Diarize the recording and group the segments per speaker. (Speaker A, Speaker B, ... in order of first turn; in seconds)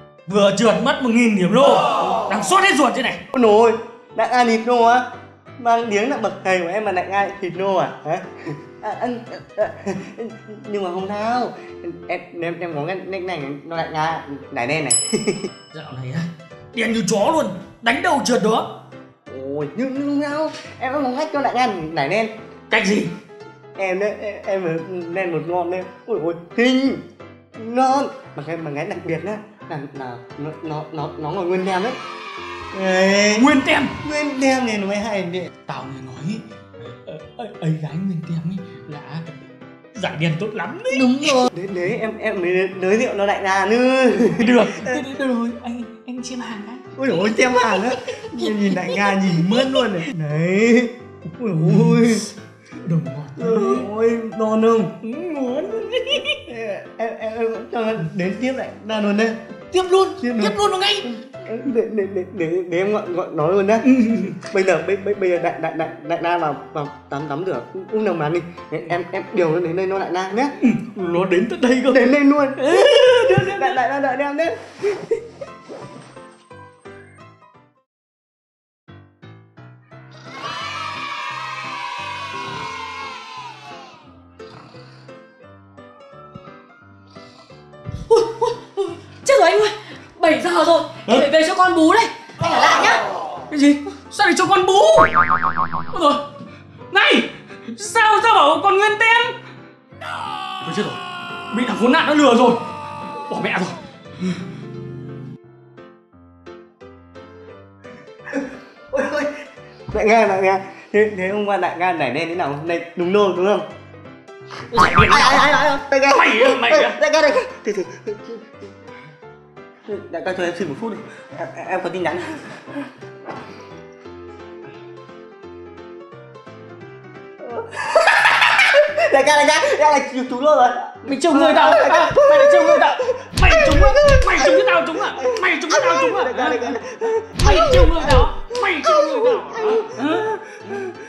Speaker A: 0.3-3.2, 15.7-18.8, 22.7-23.1, 33.3-33.9, 35.7-39.3, 40.0-41.5, 44.4-46.8, 52.9-53.8, 55.1-56.2, 59.7-61.1, 63.8-64.4, 70.6-72.0, 72.7-73.8, 93.5-95.1, 95.9-96.2, 96.9-99.4, 100.6-101.0, 101.5-102.6, 103.2-103.8, 114.7-115.5, 116.1-117.0, 131.1-136.8, 137.4-140.3
Speaker B: 3.3-15.5, 19.3-22.4, 23.8-27.0, 27.6-32.0, 32.7-33.5, 34.0-35.5, 41.3-45.0, 47.0-52.3, 53.4-55.0, 56.5-59.4, 60.2-63.9, 64.5-70.5, 71.9-75.2, 108.9-109.3, 109.9-113.7, 114.7-118.4, 119.9-122.8, 127.4-140.9
Speaker C: 88.1-93.0